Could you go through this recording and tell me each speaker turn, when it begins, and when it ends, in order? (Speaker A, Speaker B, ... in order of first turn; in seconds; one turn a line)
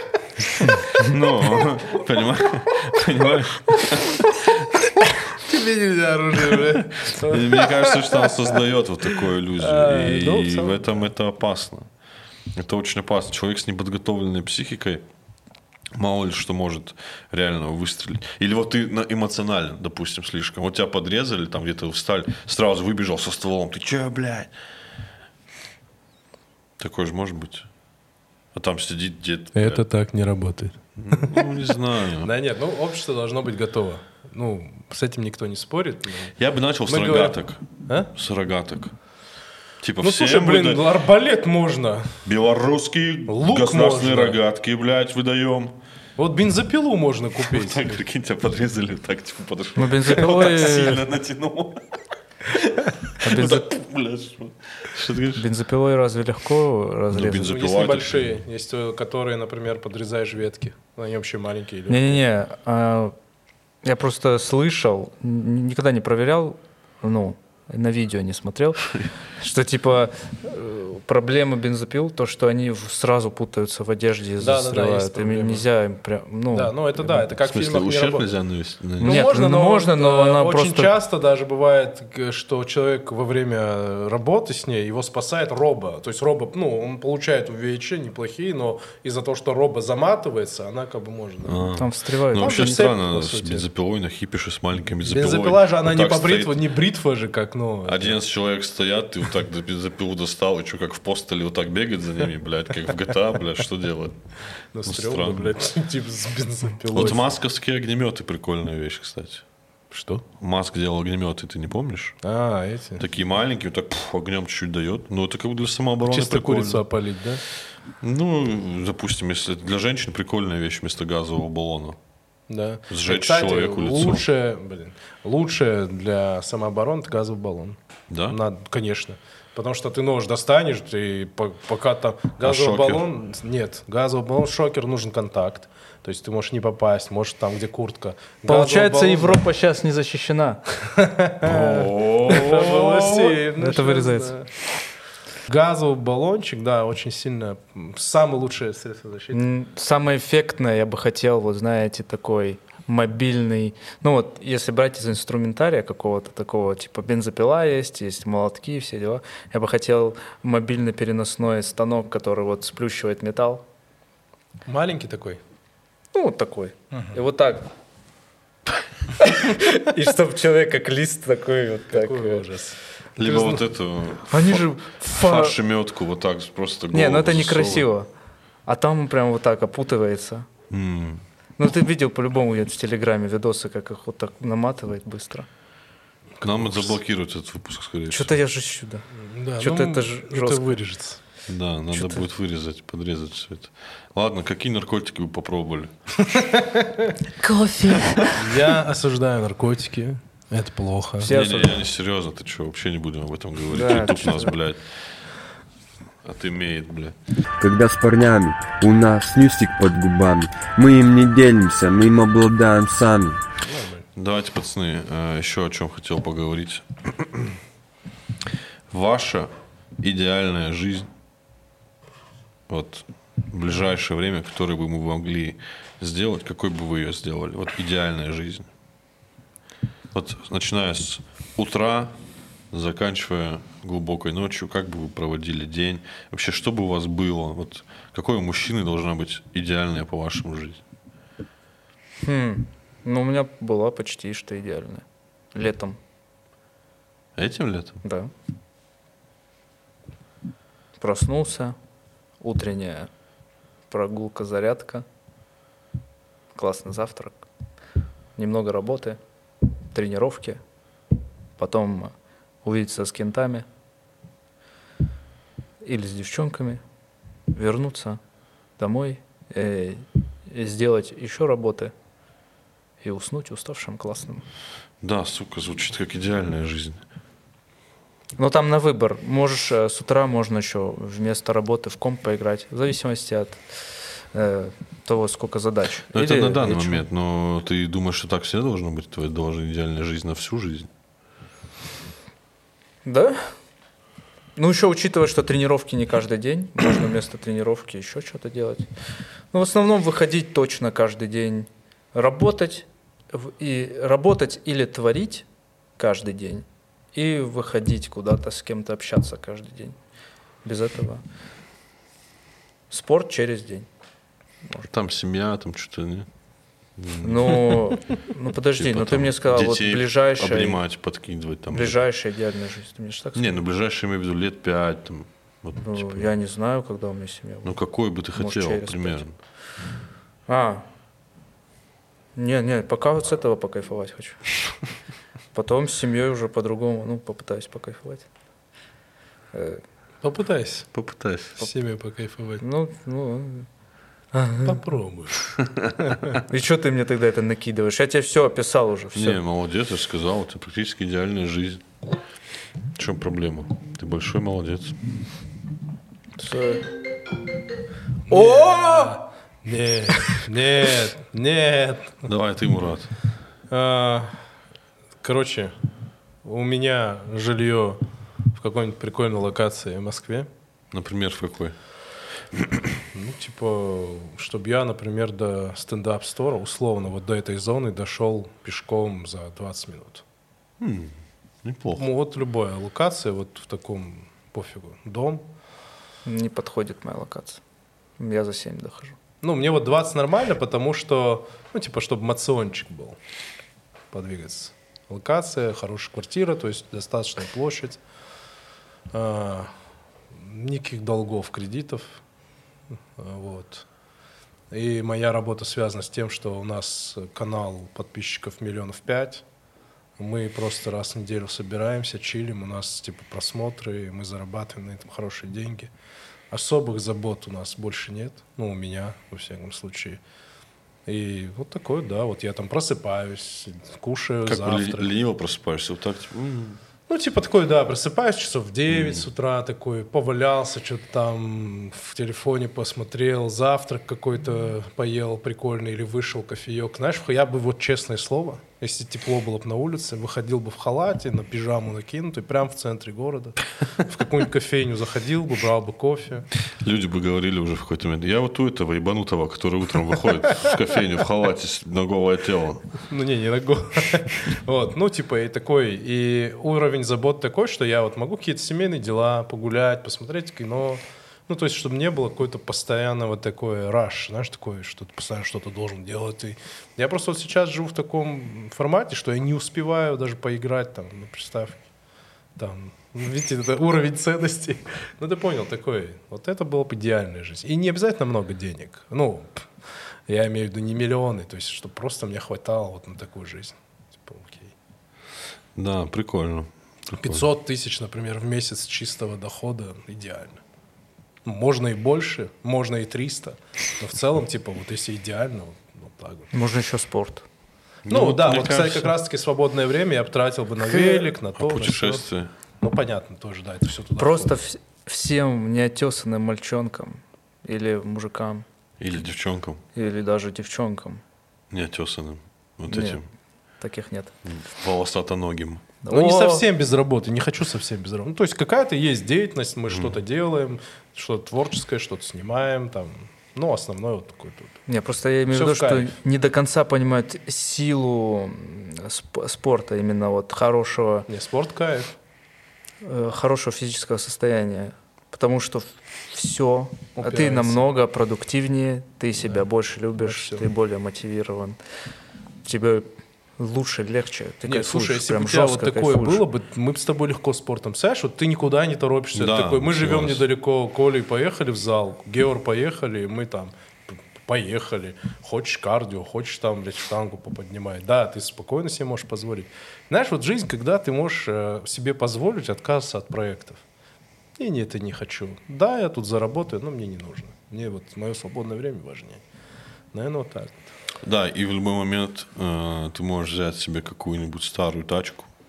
Speaker A: 0.4-4.8
Speaker B: 5.3-8.6
Speaker A: 7.0-11.9
Speaker B: 9.2-11.0
Speaker A: 12.6-15.0
Speaker A: 15.9-24.5
Speaker A: 26.8-27.7
Speaker A: 28.5-29.8
Speaker B: 29.5-31.5
Speaker A: 31.0-32.3
Speaker B: 32.2-36.3
Speaker A: 36.4-38.9
Speaker B: 36.9-38.1
Speaker A: 39.8-40.9
Speaker B: 40.0-42.1
Speaker A: 42.2-45.8
Speaker B: 43.3-44.4
Speaker B: 46.2-48.0
Speaker A: 47.4-55.4
Speaker C: 49.8-51.0
Speaker C: 53.2-53.7
Speaker C: 55.3-57.5
Speaker A: 57.1-58.4
Speaker B: 57.4-62.2
Speaker C: 61.9-63.1
Speaker C: 63.8-77.1
Speaker B: 74.4-75.7
Speaker B: 76.5-78.3
Speaker A: 77.4-79.2
Speaker B: 79.0-91.7
Speaker C: 79.0-80.9
Speaker A: 91.4-96.6
Speaker C: 91.8-92.9
Speaker B: 92.3-93.7
Speaker B: 95.0-98.2
Speaker A: 97.8-104.2
Speaker B: 104.7-107.2
Speaker A: 104.8-105.5
Speaker A: 106.9-109.4
Speaker B: 109.9-110.2
Speaker A: 110.4-112.2
Speaker B: 112.2-113.0
Speaker A: 113.0-116.8
Speaker B: 116.1-117.4
Speaker A: 118.0-122.0
Speaker B: 122.5-127.8
Speaker A: 122.9-124.2
Speaker A: 128.1-128.4
Speaker B: 128.3-139.4
Speaker A: 132.4-133.0
Speaker C: 138.5-140.6
Speaker B: 140.8-144.5
Speaker A: 141.4-143.4
Speaker C: 143.6-144.3
Speaker B: 145.5-149.5
Speaker C: 149.3-163.6
Speaker B: 164.7-165.4
Speaker C: 166.1-167.7
Speaker C: 169.2-172.4
Speaker B: 171.9-173.6
Speaker A: 173.2-177.9
Speaker C: 174.3-175.6
Speaker C: 176.9-178.1
Speaker C: 178.7-180.5
Speaker A: 180.7-181.2
Speaker C: 181.6-185.5
Speaker B: 186.4-186.9
Speaker A: 186.4-188.3
Speaker C: 188.1-189.0
Speaker B: 189.2-191.2
Speaker C: 189.6-190.8
Speaker A: 191.5-196.2
Speaker C: 191.9-192.2
Speaker B: 196.2-197.1
Speaker C: 197.4-198.3
Speaker B: 198.3-201.3
Speaker C: 201.2-201.8
Speaker A: 201.2-205.0
Speaker C: 203.7-204.5
Speaker A: 206.2-207.2
Speaker D: 207.6-213.4
Speaker B: 213.6-214.1
Speaker A: 214.2-217.5
Speaker A: 218.9-221.1
Speaker A: 222.7-228.7
Speaker A: 230.1-232.1
Speaker A: 232.7-240.8
Speaker C: 242.2-246.0
Speaker A: 247.3-248.0
Speaker C: 248.0-248.3
Speaker C: 251.0-251.8
Speaker C: 252.4-253.1
Speaker C: 253.9-255.0
Speaker C: 256.5-257.4
Speaker C: 258.4-259.2
Speaker C: 259.9-260.6
Speaker C: 261.6-262.1
Speaker C: 262.6-263.6
Speaker C: 265.8-266.8
Speaker C: 267.5-268.2
Speaker C: 268.8-271.9
Speaker C: 273.0-274.4
Speaker A: 275.0-277.0
Speaker C: 278.4-283.6
Speaker C: 284.3-287.0
Speaker A: 286.1-290.9
Speaker C: 293.0-293.5
Speaker C: 294.6-298.9
Speaker C: 299.5-305.4
Speaker C: 306.0-309.9
Speaker C: 310.6-311.2
Speaker C: 312.9-313.9
Speaker A: 314.9-316.3
Speaker A: 316.9-318.0
Speaker C: 317.2-320.8
Speaker A: 318.8-322.0
Speaker C: 321.7-323.6
Speaker A: 323.3-326.3
Speaker C: 325.8-327.8
Speaker A: 327.6-329.3
Speaker C: 328.3-329.2
Speaker C: 330.5-330.9
Speaker C: 332.4-334.5
Speaker C: 335.5-338.3
Speaker C: 339.5-339.8
Speaker B: 340.2-340.9
Speaker A: 340.9-341.6
Speaker B: 341.6-342.6
Speaker C: 342.6-343.7
Speaker C: 344.3-344.8
Speaker B: 344.6-345.5
Speaker B: 346.0-346.3
Speaker C: 346.4-349.4
Speaker A: 349.1-351.8
Speaker A: 352.9-355.0
Speaker C: 356.4-356.9
Speaker B: 358.3-362.2
Speaker C: 358.3-359.1
Speaker A: 362.2-363.1
Speaker B: 363.7-364.4
Speaker B: 365.2-365.7
Speaker B: 366.4-368.0
Speaker B: 368.5-370.5
Speaker A: 370.9-371.8
Speaker B: 373.1-380.2
Speaker A: 380.8-382.1
Speaker B: 381.9-385.4
Speaker C: 386.2-387.6
Speaker C: 388.2-389.1
Speaker B: 389.4-393.2
Speaker B: 394.1-398.0
Speaker B: 399.1-399.7
Speaker B: 400.3-402.2
Speaker B: 403.2-403.9
Speaker B: 404.7-409.4
Speaker B: 410.2-415.9
Speaker B: 416.5-420.2
Speaker B: 421.1-425.1
Speaker A: 424.4-426.8
Speaker B: 427.1-446.5
Speaker A: 428.9-429.2
Speaker A: 446.8-452.9
Speaker B: 453.1-471.8
Speaker B: 472.6-479.7
Speaker B: 480.3-484.7
Speaker A: 485.8-487.4
Speaker B: 487.2-490.6
Speaker B: 491.4-496.5
Speaker C: 496.5-497.4
Speaker A: 498.0-499.1
Speaker B: 498.1-502.2
Speaker A: 501.5-502.5
Speaker B: 502.8-504.5
Speaker C: 504.2-508.6
Speaker A: 509.0-509.8
Speaker C: 509.9-511.2
Speaker A: 511.7-513.2
Speaker C: 512.9-513.2
Speaker C: 513.8-514.3
Speaker A: 514.4-515.8
Speaker C: 516.0-516.6
Speaker B: 516.1-524.8
Speaker A: 519.9-520.2
Speaker C: 524.9-531.3
Speaker B: 525.5-526.1
Speaker B: 531.3-532.1
Speaker C: 533.0-541.8
Speaker B: 537.1-537.8
Speaker B: 540.2-540.7
Speaker C: 542.6-546.4
Speaker B: 544.6-563.8
Speaker A: 549.3-550.4
Speaker B: 564.6-569.4
Speaker B: 570.1-570.9
Speaker A: 571.2-575.5